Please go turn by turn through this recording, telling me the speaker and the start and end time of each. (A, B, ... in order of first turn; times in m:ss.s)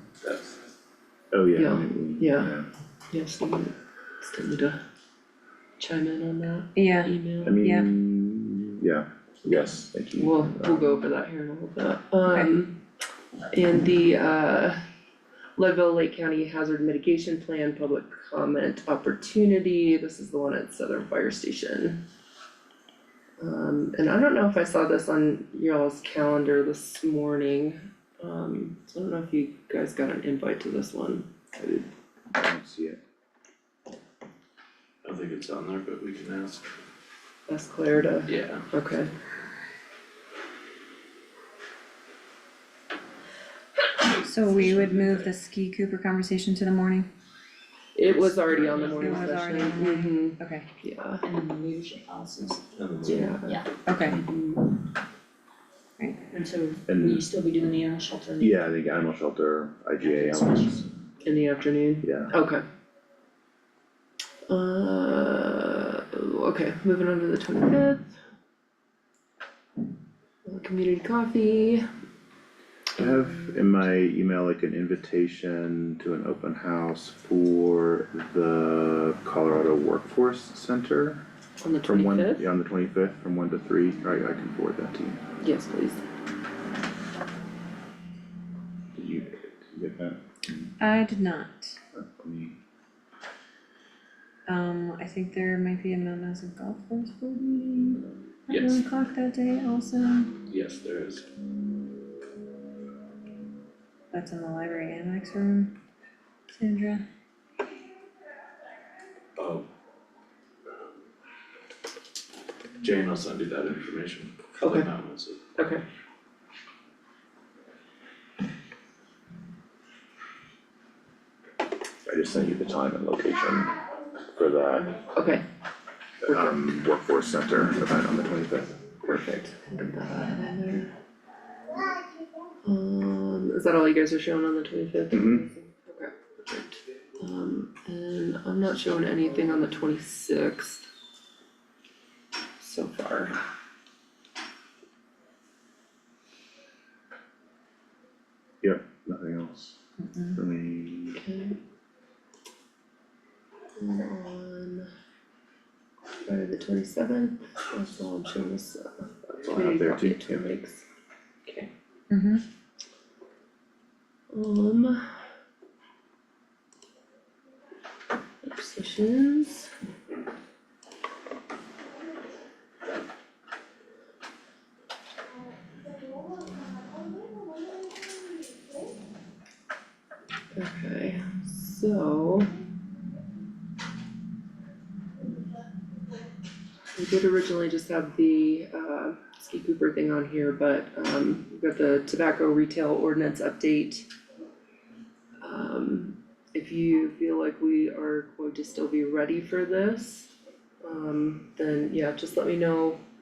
0:01.3-0:02.7 A
0:01.6-0:02.6 B
0:03.1-0:04.8 B
0:05.8-0:07.6 B
0:06.8-0:07.9 C
0:07.4-0:10.8 A
0:10.2-0:12.8 B
0:12.3-0:12.5 C
0:13.5-0:14.8 B
0:15.6-0:22.0 B
0:23.4-0:31.9 B
0:32.3-0:33.0 A
0:35.0-0:36.8 D
0:37.5-0:39.1 B
0:38.3-0:38.6 D
0:44.1-0:47.1 C
0:44.5-0:45.3 D
0:47.9-0:51.2 B
0:48.5-0:49.1 D
0:48.8-0:50.7 C
0:51.2-0:52.7 E
0:52.6-0:53.5 D
0:53.0-0:54.7 B
0:53.8-0:54.2 C
0:56.0-0:56.2 C
0:56.3-0:58.4 E
0:56.9-0:57.3 A
0:58.4-1:00.8 A
1:00.1-1:00.6 E
1:01.2-1:02.6 B
1:02.0-1:02.3 A
1:04.5-1:08.2 B
1:10.4-1:11.9 B
1:13.0-1:21.2 A
1:21.6-1:22.5 B
1:21.8-1:25.2 A
1:25.4-1:26.0 B
1:28.9-1:30.7 A
1:30.8-1:31.8 C
1:31.9-1:32.6 A
1:34.5-1:40.4 C
1:38.5-1:38.8 D
1:40.5-1:41.2 D
1:44.1-1:45.7 C
1:46.5-1:47.0 C
1:49.4-1:49.7 D
1:52.8-1:55.4 D
1:54.6-1:54.9 B
1:55.6-1:55.8 B
2:02.0-2:03.8 A
2:04.3-2:05.0 A
2:05.0-2:05.4 B
2:06.2-2:09.2 A
2:09.0-2:10.9 B
2:12.6-2:20.9 B
2:15.1-2:15.4 A
2:22.6-2:23.4 B
2:28.6-2:29.8 A
2:30.4-2:31.2 A
2:31.2-2:31.6 B
2:33.8-2:34.9 B
2:36.2-2:40.8 B
2:39.4-2:40.4 A
2:41.4-2:41.7 B
2:42.1-2:42.4 C
2:44.3-2:45.0 B
2:48.4-2:49.7 B
3:00.5-3:02.5 B
3:06.9-3:14.1 B
3:15.4-3:23.0 B